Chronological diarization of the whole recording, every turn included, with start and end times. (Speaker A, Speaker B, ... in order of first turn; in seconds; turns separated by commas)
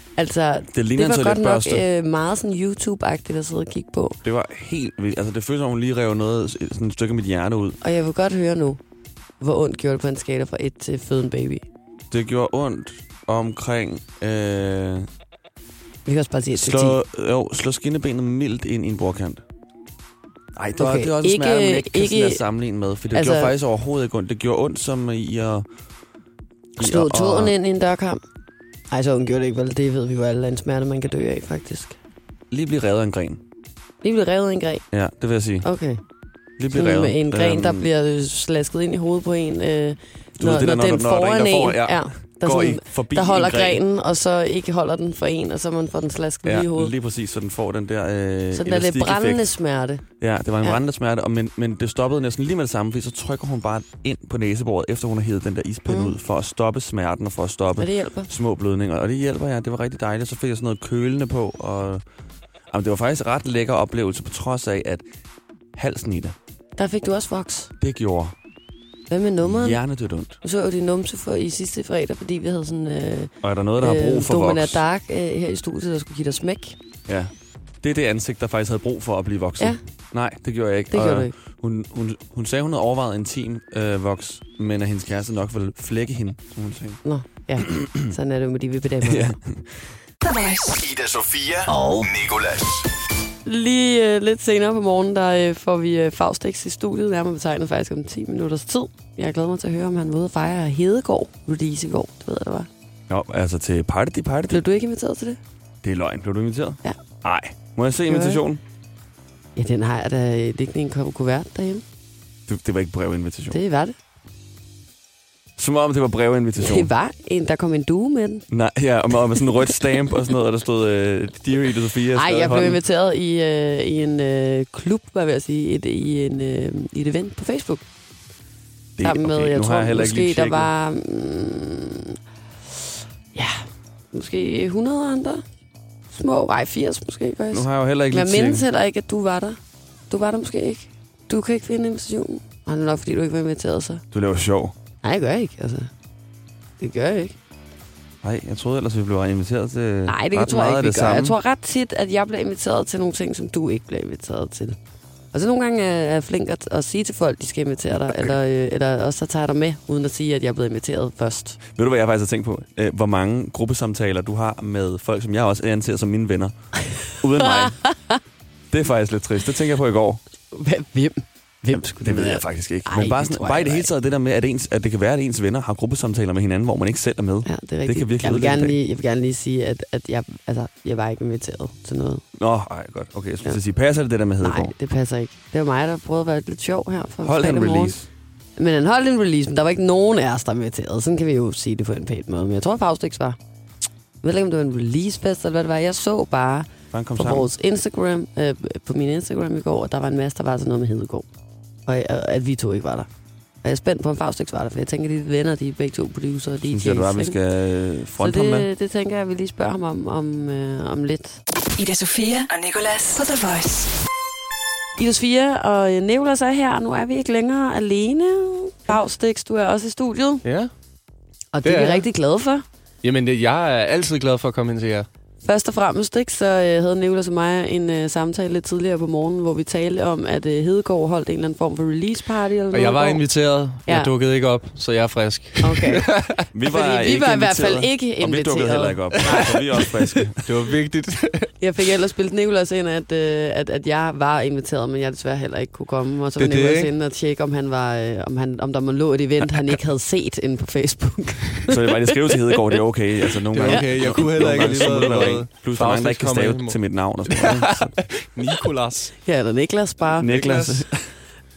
Speaker A: 0.1-4.2, Speaker B: 0.7-1.8, Speaker B: 4.2-7.8, Speaker A: 7.8-8.8, Speaker A: 9.4-11.6, Speaker B: 12.1-15.1, Speaker A: 16.1-17.0, Speaker B: 16.5-19.4, Speaker B: 20.6-25.6, Speaker A: 20.8-22.4, Speaker A: 23.1-23.5, Speaker B: 26.8-27.5, Speaker A: 26.8-28.2, Speaker A: 28.9-31.9, Speaker B: 32.5-33.4, Speaker A: 34.0-34.9, Speaker B: 34.9-35.7, Speaker A: 35.6-36.0, Speaker B: 36.6-37.9, Speaker A: 36.7-46.9, Speaker B: 40.4-43.8, Speaker B: 46.4-49.5, Speaker A: 48.5-50.0, Speaker B: 50.2-62.0, Speaker A: 55.9-56.1, Speaker A: 57.8-58.3, Speaker B: 62.7-65.0, Speaker B: 65.7-66.3, Speaker A: 66.8-67.7, Speaker B: 67.8-68.3, Speaker A: 69.1-69.8, Speaker B: 69.4-70.4, Speaker A: 70.4-76.8, Speaker B: 73.4-74.8, Speaker B: 77.1-87.0, Speaker A: 80.9-81.3, Speaker A: 87.0-89.3, Speaker B: 87.6-87.9, Speaker B: 89.0-89.6, Speaker C: 90.2-90.8, Speaker D: 90.7-92.8, Speaker A: 91.7-92.0, Speaker A: 93.4-102.7, Speaker B: 103.1-104.6, Speaker A: 104.5-105.4, Speaker B: 105.8-108.6, Speaker A: 108.1-108.4, Speaker A: 109.5-111.8, Speaker B: 112.5-113.6, Speaker A: 113.5-113.9, Speaker B: 115.6-116.9, Speaker A: 116.6-118.5, Speaker B: 118.5-122.8, Speaker A: 122.1-127.8, Speaker B: 129.0-130.7, Speaker A: 129.0-132.2, Speaker A: 133.3-135.4, Speaker A: 136.1-139.6, Speaker B: 137.5-138.6, Speaker A: 140.1-144.0, Speaker B: 144.1-144.7, Speaker A: 145.0-145.9, Speaker A: 146.8-147.3, Speaker B: 148.2-151.4, Speaker A: 150.1-154.8, Speaker A: 155.3-161.6, Speaker B: 161.7-166.5, Speaker B: 167.2-167.8, Speaker A: 167.4-168.2, Speaker B: 168.7-170.2, Speaker A: 170.5-173.9, Speaker B: 171.7-178.8, Speaker A: 177.4-182.2, Speaker B: 182.4-184.7, Speaker A: 184.4-187.9, Speaker B: 187.2-188.1, Speaker A: 188.6-193.4, Speaker A: 194.2-201.2, Speaker B: 196.9-197.5, Speaker A: 201.9-203.1, Speaker A: 203.6-207.4, Speaker B: 206.7-208.7, Speaker A: 208.2-211.4, Speaker C: 211.8-213.9, Speaker A: 215.0-220.4, Speaker E: 220.4-220.7, Speaker A: 221.5-222.6, Speaker E: 221.6-222.1, Speaker E: 223.0-225.1, Speaker A: 225.4-233.2, Speaker E: 232.7-236.4, Speaker A: 233.8-234.1, Speaker A: 235.6-236.1, Speaker B: 236.5-240.4, Speaker A: 236.7-239.9, Speaker E: 240.4-241.5, Speaker A: 241.6-252.1, Speaker E: 246.4-246.9, Speaker B: 251.7-257.9, Speaker E: 253.5-259.2, Speaker A: 253.7-255.4, Speaker A: 259.2-260.3, Speaker B: 260.2-261.1, Speaker E: 260.2-260.9